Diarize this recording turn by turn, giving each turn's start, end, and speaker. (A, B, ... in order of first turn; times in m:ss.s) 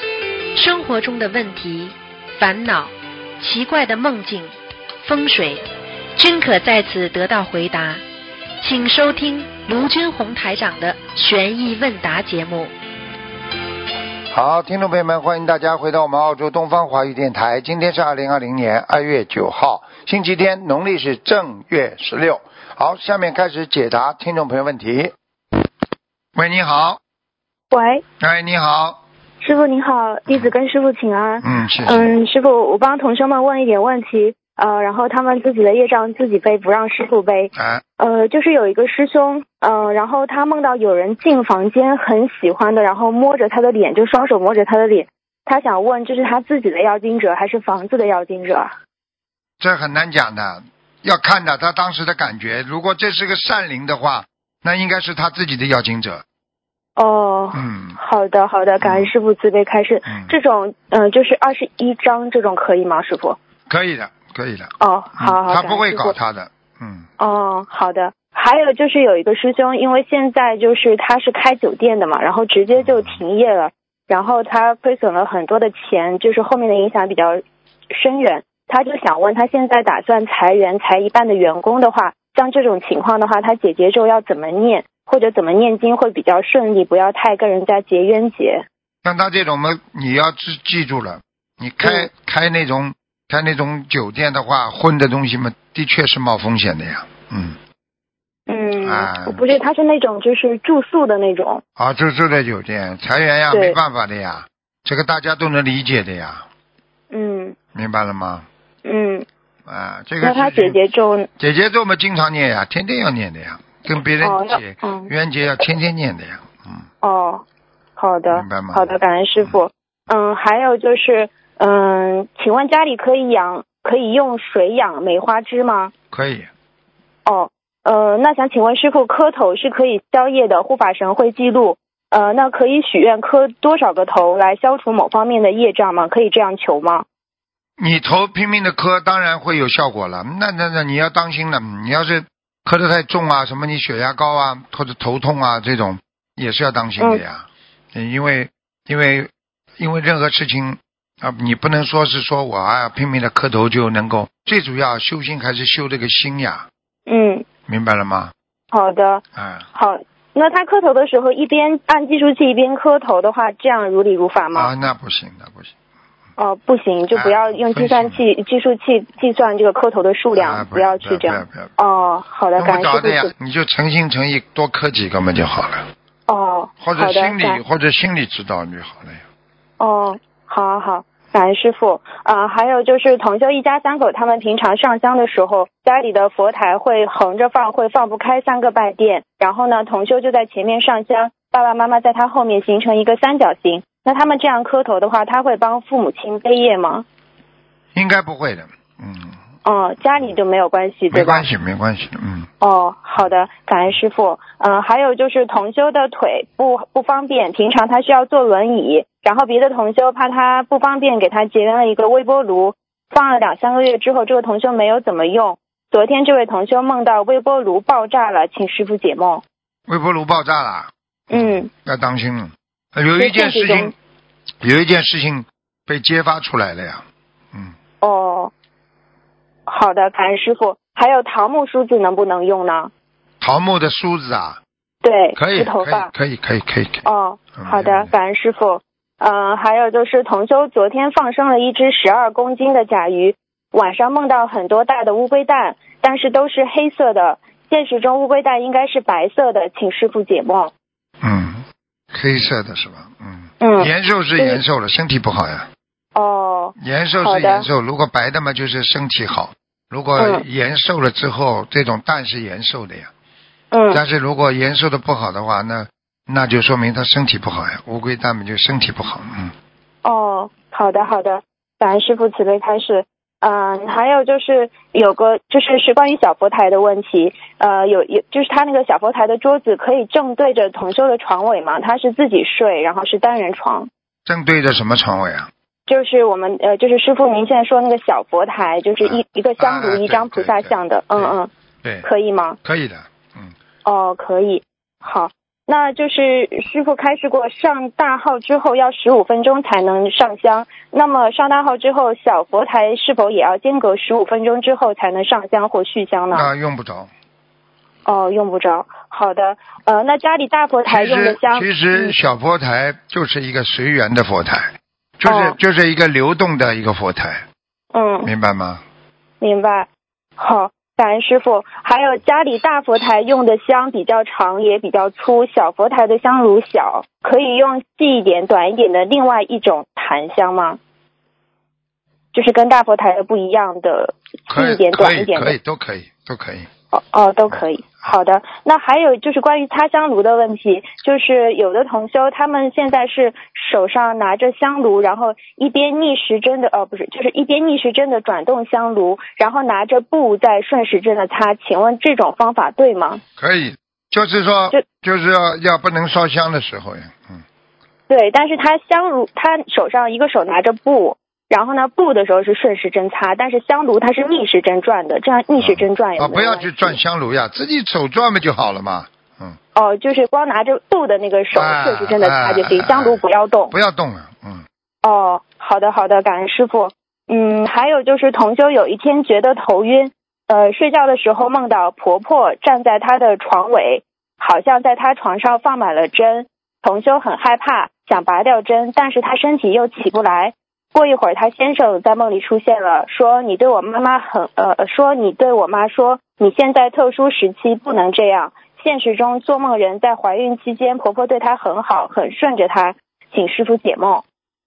0:00.5-0:05.6 A
0:06.2-0:08.0 A
0:08.6-0:12.7 A
0:14.3-0:25.1 B
0:26.3-0:27.0 B
0:27.7-0:28.0 C
0:28.2-0:29.0 B
0:29.4-0:48.7 C
0:31.4-0:32.1 B
0:37.5-0:37.8 B
0:49.6-0:56.2 B
0:57.0-1:03.4 C
0:57.5-0:58.0 B
0:58.8-0:59.1 B
1:00.0-1:00.4 B
1:03.7-1:07.1 B
1:04.8-1:06.1 C
1:07.2-1:28.6 C
1:12.8-1:13.2 B
1:29.0-1:37.6 B
1:31.8-1:32.1 C
1:38.5-1:41.6 C
1:38.8-1:39.4 B
1:41.8-1:46.4 B
1:43.5-1:43.8 C
1:47.1-1:47.6 C
1:47.7-1:48.5 B
1:48.8-1:49.2 C
1:49.7-1:50.8 B
1:50.2-1:51.3 C
1:51.4-1:56.8 B
1:54.2-1:55.1 C
1:57.0-1:57.4 C
1:58.0-2:05.9 C
1:58.3-1:59.5 B
2:06.1-2:06.5 B
2:07.2-2:17.0 C
2:17.8-2:36.7 B
2:37.1-2:37.4 C
2:37.7-2:38.3 B
2:38.7-2:39.2 C
2:39.3-2:39.6 B
2:39.7-2:44.7 C
2:44.5-2:45.7 B
2:46.4-2:53.3 C
2:47.1-2:48.2 B
2:50.3-2:51.7 B
2:52.6-2:55.8 B
2:56.3-2:57.6 C
2:56.8-2:59.2 B
2:59.8-3:17.0 C
3:17.9-3:19.4 B
3:19.6-3:21.4 C
3:21.1-3:22.5 B
3:22.6-3:39.4 C
3:39.9-3:43.9 B
3:41.3-3:41.7 C
3:43.2-3:43.9 C
3:44.6-3:47.7 B
3:48.0-3:48.5 C
3:49.7-3:52.9 C
3:53.4-3:54.6 B
3:55.0-3:56.1 C
3:55.3-3:57.0 B
3:57.0-4:10.7 C
3:57.5-3:58.1 B
4:11.2-4:15.7 B
4:13.6-4:14.6 C
4:16.1-4:17.7 C
4:16.8-4:23.1 B
4:20.2-4:20.4 C
4:23.7-4:24.0 C
4:23.9-4:29.5 B
4:30.0-4:43.9 C
4:44.2-4:45.5 B
4:45.9-4:51.5 C
4:49.0-4:52.1 B
4:52.0-4:52.6 C
4:52.6-4:53.5 B
4:53.8-5:06.5 C
5:06.3-5:07.1 B
5:08.0-5:12.1 C
5:10.9-5:17.4 B
5:15.2-5:15.6 C
5:17.9-5:18.3 C
5:18.2-5:18.8 B
5:19.4-5:30.8 C
5:32.3-5:35.6 C
5:34.5-5:36.7 B
5:36.9-5:53.2 C
5:37.5-5:38.1 B
5:53.4-5:57.4 B
5:58.1-6:07.0 C
6:05.6-6:09.6 B
6:09.7-6:13.7 C
6:11.5-6:14.6 B
6:15.0-6:44.2 C